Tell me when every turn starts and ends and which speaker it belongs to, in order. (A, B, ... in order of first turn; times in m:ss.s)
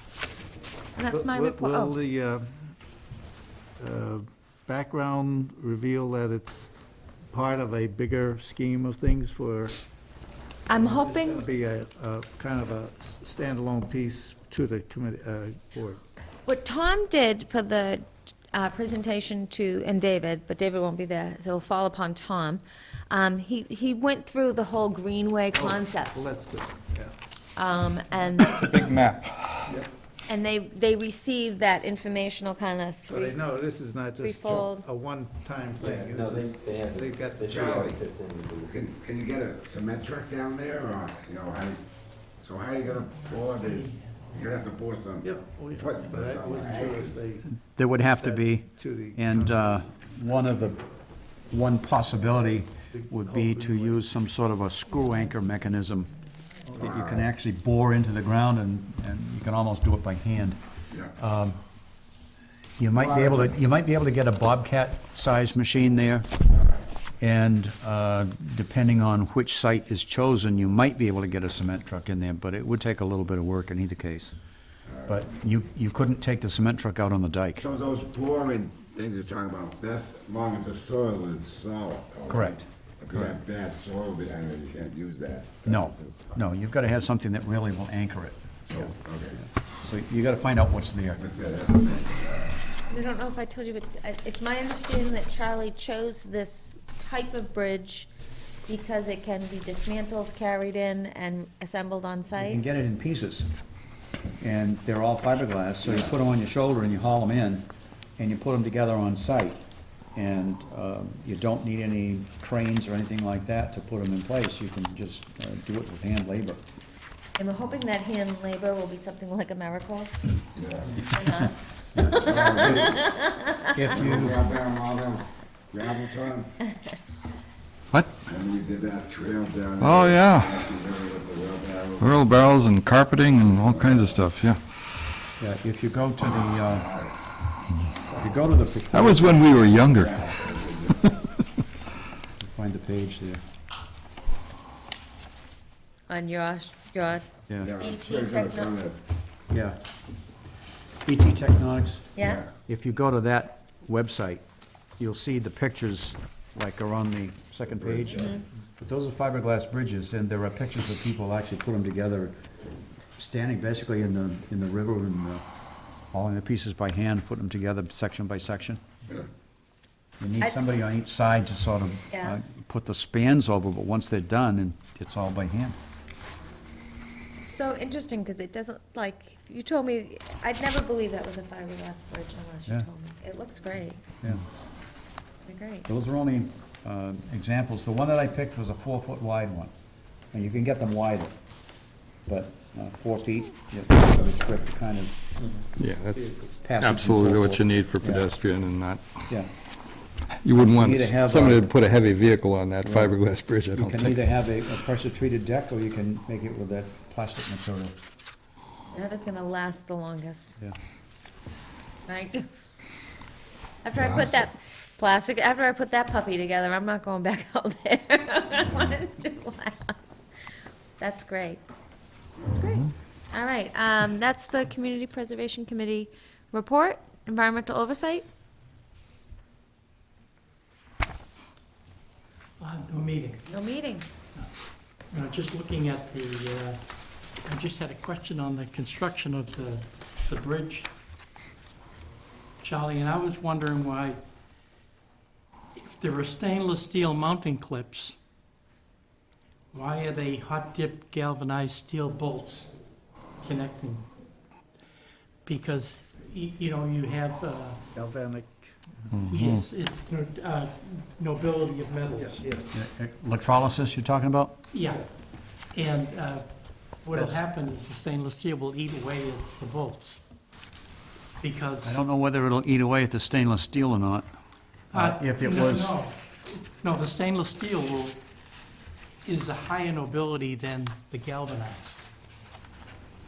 0:01.0-0:02.0 A
0:01.1-0:02.7 B
0:03.8-0:06.7 B
0:07.3-0:09.8 B
0:10.7-0:11.5 A
0:10.7-0:16.0 B
0:16.4-0:26.2 A
0:25.5-0:27.1 B
0:27.6-0:28.7 A
0:28.6-0:29.6 C
0:30.3-0:33.4 A
0:33.1-0:38.0 B
0:34.2-0:34.9 A
0:35.8-0:38.8 D
0:37.4-0:38.0 E
0:38.6-0:41.8 E
0:42.4-0:47.2 E
0:45.2-0:47.4 B
0:47.5-0:50.8 F
0:48.0-0:49.8 B
0:51.5-0:56.1 F
0:52.9-0:54.0 B
0:56.8-1:00.6 F
0:56.8-0:57.3 E
1:01.2-1:01.6 F
1:02.8-1:06.3 F
1:03.0-1:03.5 E
1:07.2-1:14.4 F
1:14.9-1:15.2 E
1:15.1-1:17.6 F
1:17.6-1:26.3 E
1:22.3-1:22.6 F
1:23.1-1:23.4 F
1:25.7-1:31.2 F
1:28.7-1:29.4 E
1:31.2-1:32.6 E
1:32.9-1:38.1 A
1:38.7-1:42.6 A
1:42.4-1:43.5 F
1:44.4-1:49.6 F
1:50.2-1:56.6 F
1:57.4-2:00.2 A
2:00.6-2:01.1 E
2:00.9-2:04.0 A
2:02.0-2:02.8 F
2:02.1-2:03.1 E
2:03.8-2:04.4 B
2:03.9-2:06.5 E
2:04.0-2:04.3 F
2:07.9-2:08.2 C
2:08.2-2:12.2 E
2:09.8-2:10.6 C
2:12.0-2:14.6 C
2:13.5-2:14.3 E
2:15.4-2:16.9 F
2:16.7-2:17.1 E
2:18.2-2:19.7 F
2:18.9-2:21.2 C
2:19.9-2:21.1 E
2:22.4-2:23.4 F
2:26.1-2:27.3 A
2:27.5-2:27.7 F
2:27.6-2:29.0 E
2:27.8-2:28.8 A
2:29.5-2:29.8 F
2:31.0-2:34.4 F
2:32.2-2:32.4 A
2:32.2-2:32.5 E
2:35.0-2:42.3 F
2:37.7-2:38.3 E
2:38.2-2:38.4 A
2:43.2-2:45.4 F
2:46.1-2:48.8 F
2:50.2-2:55.8 F
2:50.4-2:50.8 A
2:52.1-2:52.4 A
2:57.4-3:04.0 A
3:05.4-3:05.9 A
3:05.9-3:09.7 F
3:10.3-3:11.4 F
3:12.3-3:15.2 F
3:15.8-3:19.2 C
3:16.5-3:18.3 F
3:20.4-3:24.2 C
3:20.7-3:21.7 F
3:22.8-3:28.0 F
3:28.9-3:30.5 A
3:32.1-3:32.5 A
3:33.8-3:40.2 A
3:41.0-3:41.6 A
3:42.5-3:48.2 A
3:52.6-3:53.5 G
3:53.5-3:54.1 A
3:55.1-3:56.8 G
3:57.4-4:00.9 G
4:02.6-4:04.2 G
4:05.8-4:08.2 G
4:09.7-4:12.7 G
4:13.4-4:14.1 G
4:15.5-4:17.8 G
4:17.9-4:19.0 B
4:19.1-4:19.7 C
4:19.3-4:22.4 G
4:22.1-4:22.8 B
4:22.7-4:24.6 F
4:24.7-4:25.1 G
4:25.7-4:30.2 G
4:27.1-4:27.4 F
4:31.4-4:32.0 G
4:31.8-4:34.3 F
4:34.9-4:35.9 F
4:34.9-4:38.2 G
4:39.2-4:42.0 G